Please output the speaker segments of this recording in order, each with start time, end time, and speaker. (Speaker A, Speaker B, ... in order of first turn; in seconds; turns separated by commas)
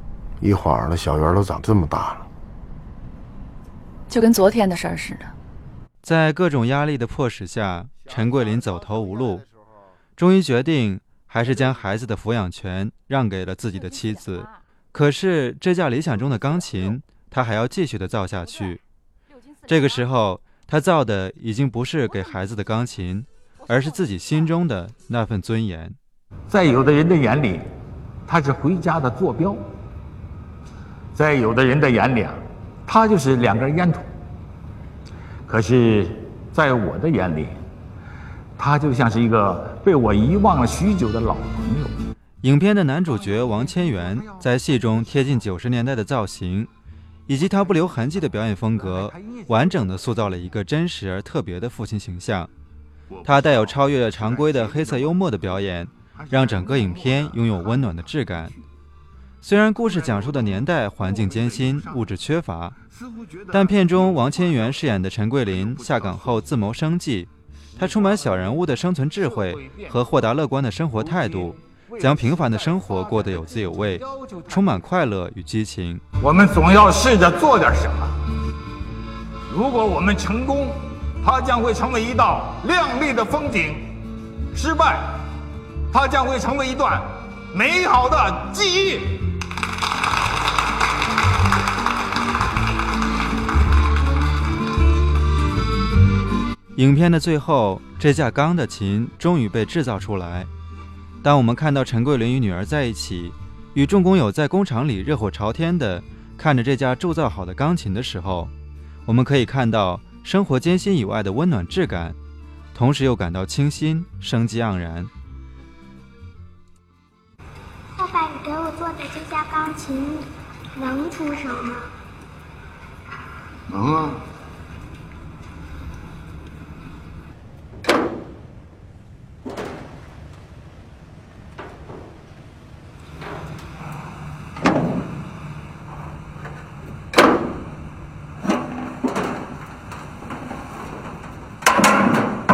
Speaker A: 0.4-2.3, Speaker B: 4.1-5.3, Speaker C: 6.0-9.4, Speaker C: 10.2-18.8, Speaker B: 13.7-14.6, Speaker C: 19.7-26.0, Speaker D: 26.5-27.6, Speaker D: 28.3-29.6, Speaker D: 31.1-34.0, Speaker D: 35.5-37.6, Speaker D: 38.6-42.0, Speaker C: 42.4-46.7, Speaker D: 43.0-45.5, Speaker C: 47.3-52.5, Speaker D: 48.7-50.2, Speaker C: 53.2-58.5, Speaker C: 59.4-62.8, Speaker C: 63.5-76.0, Speaker D: 67.8-68.4, Speaker D: 69.2-70.2, Speaker D: 71.0-74.8, Speaker D: 76.2-78.2, Speaker D: 79.5-83.9, Speaker D: 84.5-85.1, Speaker D: 85.9-89.2, Speaker C: 96.8-100.5, Speaker C: 101.2-108.5, Speaker C: 109.0-112.2, Speaker C: 112.7-115.1, Speaker E: 118.0-121.9, Speaker A: 123.7-124.2